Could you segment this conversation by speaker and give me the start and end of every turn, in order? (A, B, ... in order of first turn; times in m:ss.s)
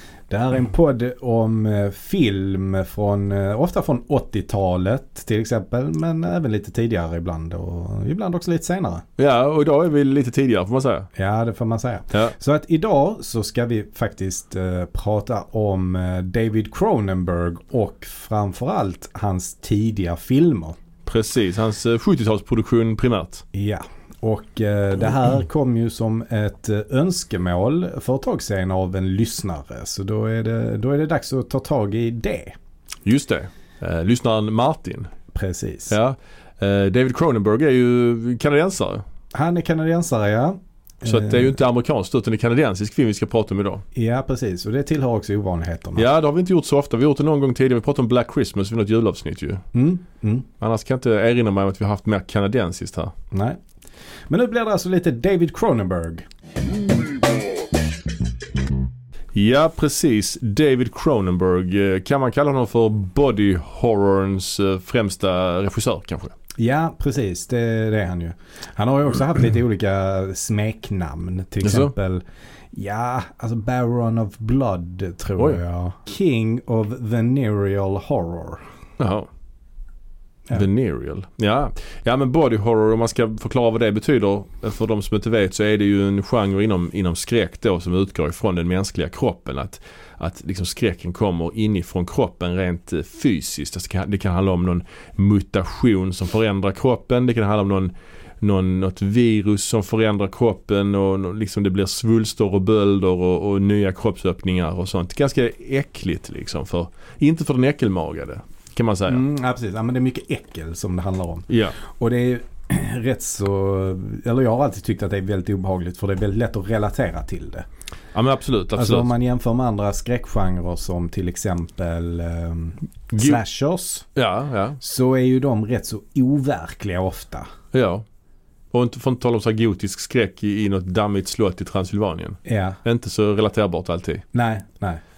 0:00.3-0:09.0 A
0:09.2-0:11.1 B
0:11.1-0:20.8 A
0:21.0-0:23.4 B
0:23.5-0:32.5 A
0:33.0-0:35.1 B
0:35.3-0:36.0 A
0:35.9-0:39.0 B
0:39.3-0:41.5 A
0:41.0-0:43.8 B
0:43.9-0:46.1 A
0:46.0-0:49.6 B
0:49.7-0:50.5 A
0:50.6-0:53.1 B
0:53.3-0:53.6 A
0:54.3-0:56.2 A
0:59.3-1:06.3 B
1:06.6-1:18.6 A
1:11.6-1:11.9 B
1:19.0-1:19.3 B
1:20.5-1:49.2 B
1:49.1-1:57.6 A
1:51.5-1:51.8 B
1:58.1-1:59.1 B
1:58.8-2:04.1 A
2:03.1-2:03.4 B
2:04.2-2:04.8 B
2:04.8-2:07.5 A
2:07.7-2:08.0 B
2:08.7-2:14.2 B
2:12.4-2:12.8 A
2:14.3-2:15.0 A